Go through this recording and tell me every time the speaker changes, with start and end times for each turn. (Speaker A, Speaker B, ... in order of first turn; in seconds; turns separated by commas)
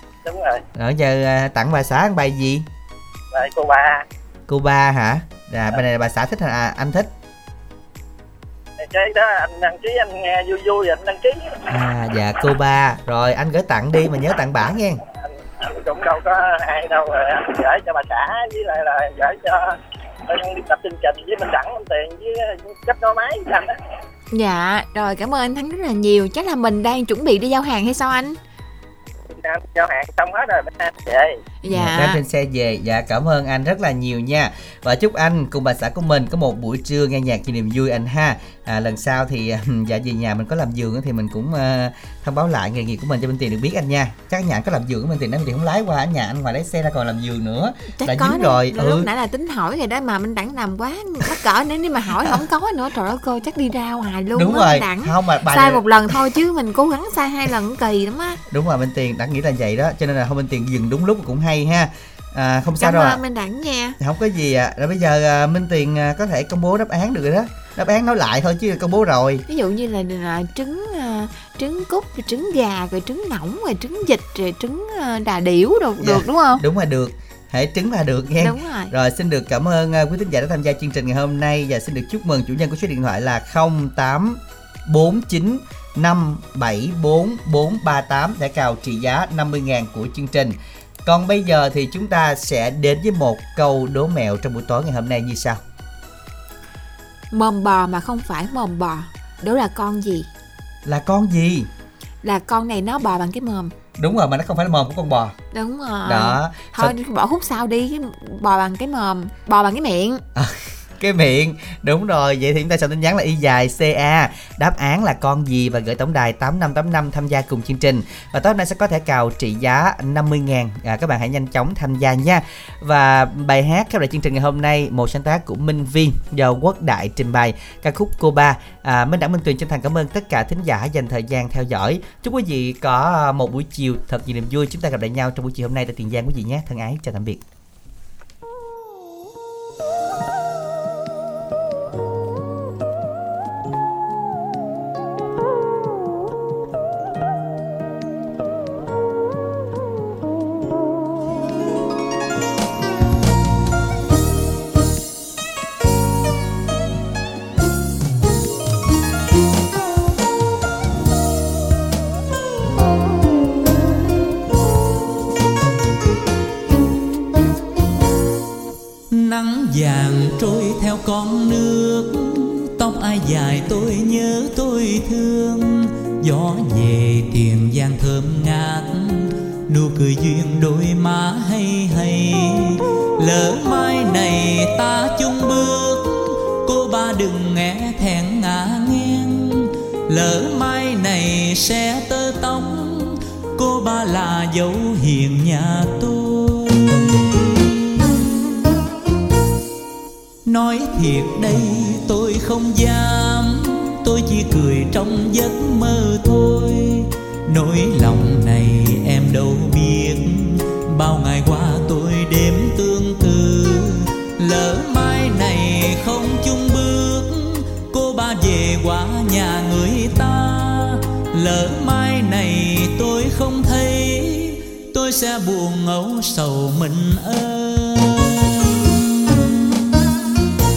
Speaker A: 0.2-0.6, Speaker B: 0.8-2.6, Speaker A: 3.3-4.0, Speaker B: 4.5-7.1, Speaker A: 8.8-11.7, Speaker B: 11.7-15.0, Speaker A: 15.6-19.8, Speaker A: 20.3-23.7, Speaker C: 24.3-28.4, Speaker A: 29.4-31.4, Speaker C: 31.6-32.2, Speaker B: 31.7-49.1, Speaker C: 47.9-58.4, Speaker B: 54.3-56.2, Speaker B: 58.5-63.2, Speaker C: 62.8-64.0, Speaker B: 64.0-69.4, Speaker C: 69.5-76.6, Speaker B: 76.0-95.6, Speaker C: 78.4-78.9, Speaker C: 97.3-100.3, Speaker B: 100.8-101.7, Speaker C: 102.2-103.7, Speaker B: 104.0-105.3, Speaker C: 105.5-110.2, Speaker B: 106.0-106.9, Speaker B: 110.3-137.4, Speaker D: 169.1-198.5, Speaker D: 200.4-229.4